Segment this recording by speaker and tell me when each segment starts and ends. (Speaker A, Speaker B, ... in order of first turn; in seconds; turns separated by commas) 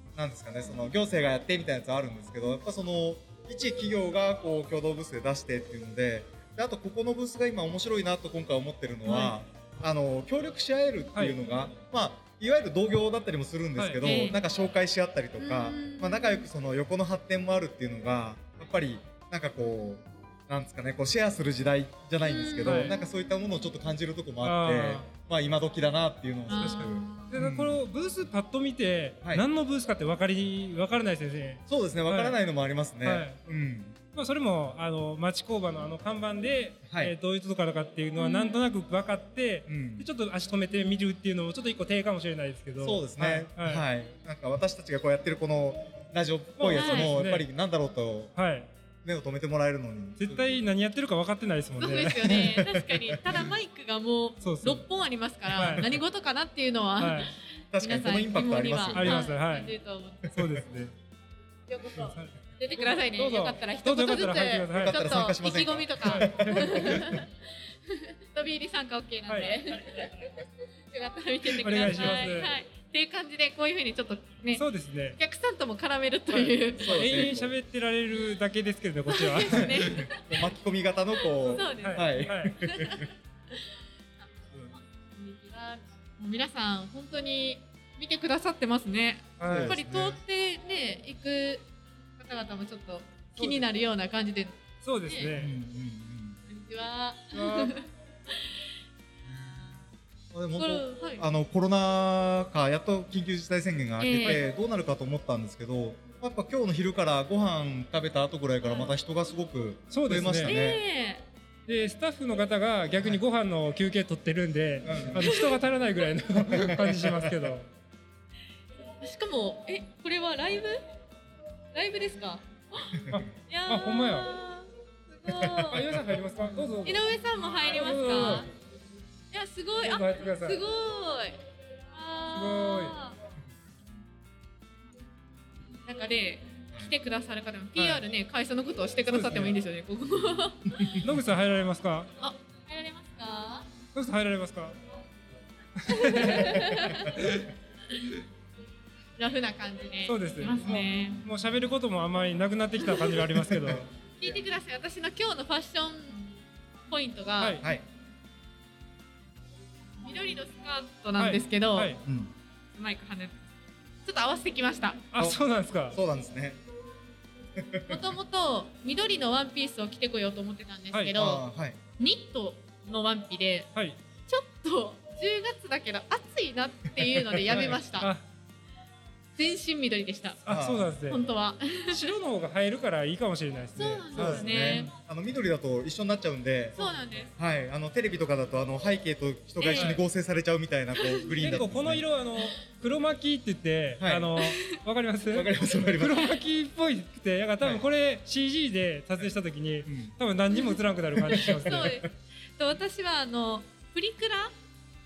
Speaker A: 0.1-27.8, Speaker B: 9.1-9.3, Speaker C: 13.8-14.2, Speaker B: 14.0-14.4, Speaker B: 15.4-16.5, Speaker B: 22.2-23.0, Speaker C: 22.6-22.9, Speaker C: 24.4-25.1, Speaker B: 26.5-27.3, Speaker C: 26.6-32.4, Speaker A: 31.7-34.0, Speaker C: 33.0-33.4, Speaker C: 34.1-43.8, Speaker A: 36.9-37.1, Speaker B: 38.1-38.6, Speaker A: 39.7-40.1, Speaker A: 42.8-48.3, Speaker C: 46.6-47.5, Speaker B: 46.7-47.1, Speaker C: 48.4-48.7, Speaker A: 49.0-50.5, Speaker C: 50.2-52.3, Speaker B: 51.8-60.3, Speaker A: 52.2-53.4, Speaker C: 54.4-54.8, Speaker A: 55.5-55.9, Speaker C: 55.5-55.9, Speaker C: 57.0-57.3, Speaker A: 57.7-59.3, Speaker C: 58.9-59.7, Speaker C: 60.3-60.9, Speaker B: 61.7-67.3, Speaker C: 62.0-65.0, Speaker A: 64.8-67.2, Speaker C: 66.0-67.1, Speaker B: 67.9-70.3, Speaker C: 69.3-69.5, Speaker B: 70.9-74.6, Speaker C: 71.6-72.5, Speaker C: 74.5-75.2, Speaker B: 75.2-77.1, Speaker C: 76.3-80.0, Speaker A: 76.8-77.5, Speaker B: 79.1-80.3, Speaker A: 79.4-83.1, Speaker B: 81.3-83.7, Speaker C: 81.8-82.5, Speaker B: 84.7-91.6, Speaker C: 89.4-89.8, Speaker A: 89.4-90.2, Speaker B: 92.2-95.3, Speaker C: 93.4-93.7, Speaker C: 94.8-95.5, Speaker A: 95.3-96.4, Speaker B: 96.5-98.3, Speaker C: 97.3-97.7, Speaker A: 99.2-99.8, Speaker A: 100.3-110.8, Speaker B: 100.5-101.2, Speaker B: 104.0-104.4, Speaker C: 109.9-110.5, Speaker B: 110.4-111.2, Speaker C: 111.7-117.7, Speaker A: 114.8-115.3, Speaker B: 115.2-115.6, Speaker A: 116.5-117.4, Speaker B: 119.0-120.8, Speaker B: 121.7-125.9, Speaker A: 123.0-123.2, Speaker C: 123.1-124.3, Speaker C: 125.7-127.1, Speaker B: 126.8-128.5, Speaker C: 127.6-128.5, Speaker B: 129.3-131.4, Speaker C: 129.8-130.6, Speaker B: 131.9-133.1, Speaker C: 132.3-132.9, Speaker B: 135.8-141.0, Speaker C: 137.8-138.0, Speaker C: 139.1-139.5, Speaker A: 140.7-141.1, Speaker C: 141.0-142.1, Speaker B: 142.2-143.7, Speaker C: 143.9-144.7, Speaker C: 145.8-147.5, Speaker B: 145.8-147.3, Speaker B: 149.2-151.2, Speaker C: 150.1-153.9, Speaker B: 152.8-153.1, Speaker A: 153.3-153.8, Speaker B: 154.2-156.3, Speaker B: 156.9-157.6, Speaker B: 160.0-162.0, Speaker C: 161.2-162.0, Speaker A: 162.0-162.3, Speaker B: 162.7-163.4, Speaker B: 164.0-165.0, Speaker C: 165.1-166.0, Speaker A: 165.9-166.6, Speaker A: 167.6-168.0, Speaker B: 167.9-171.4, Speaker A: 171.1-171.8, Speaker B: 172.0-173.7, Speaker B: 174.3-178.1, Speaker C: 177.5-178.2, Speaker B: 179.3-180.4, Speaker C: 180.4-181.3, Speaker A: 180.5-180.9, Speaker B: 181.1-182.1, Speaker C: 181.9-184.8, Speaker B: 183.8-184.9, Speaker A: 184.1-186.8, Speaker B: 186.8-187.3, Speaker A: 187.3-192.0, Speaker B: 189.6-190.0, Speaker C: 189.8-190.0, Speaker B: 191.0-191.6, Speaker C: 191.4-202.0, Speaker A: 194.0-194.4, Speaker B: 194.4-194.8, Speaker A: 195.3-196.3, Speaker A: 197.6-197.8, Speaker A: 199.8-200.1, Speaker A: 201.2-202.1, Speaker B: 201.3-204.5